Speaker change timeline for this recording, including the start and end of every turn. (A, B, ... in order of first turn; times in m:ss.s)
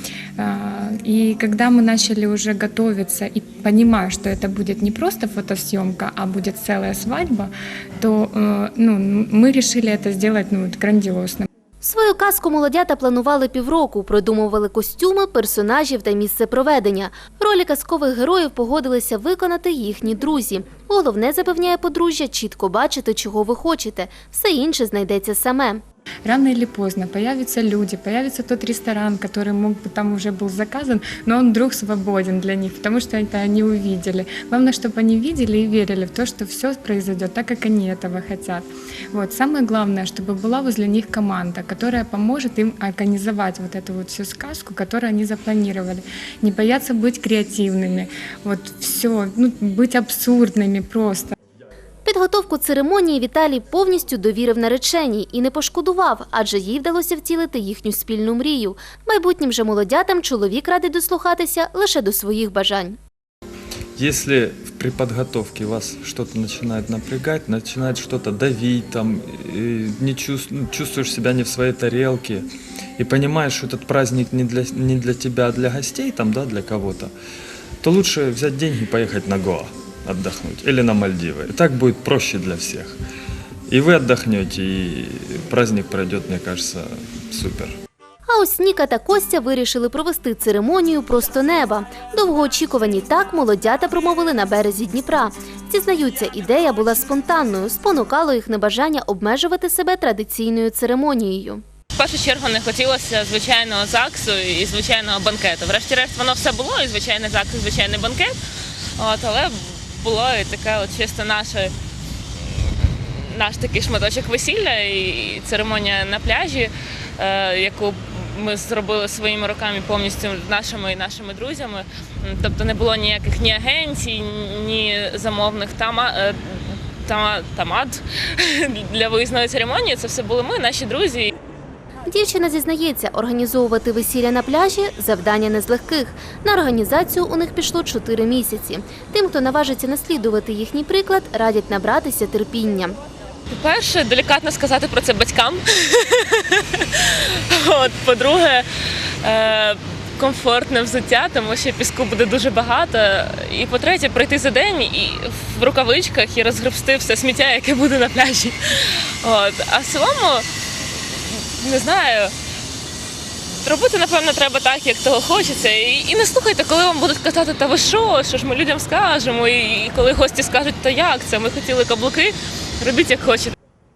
0:00.4-0:11.5 A
0:11.8-0:25.8 B
0:26.2-0:51.4 A
0:52.0-1:03.0 B
1:04.0-1:12.5 C
1:13.0-1:17.1 C
1:17.8-1:23.0 C
1:23.7-1:27.8 C
1:28.3-1:41.6 B
1:42.0-1:48.4 D
1:49.0-1:51.7 D
1:52.5-2:11.3 D
2:12.1-2:23.0 B
2:23.5-2:40.5 D
2:41.2-2:42.3 D
2:43.6-2:53.6 D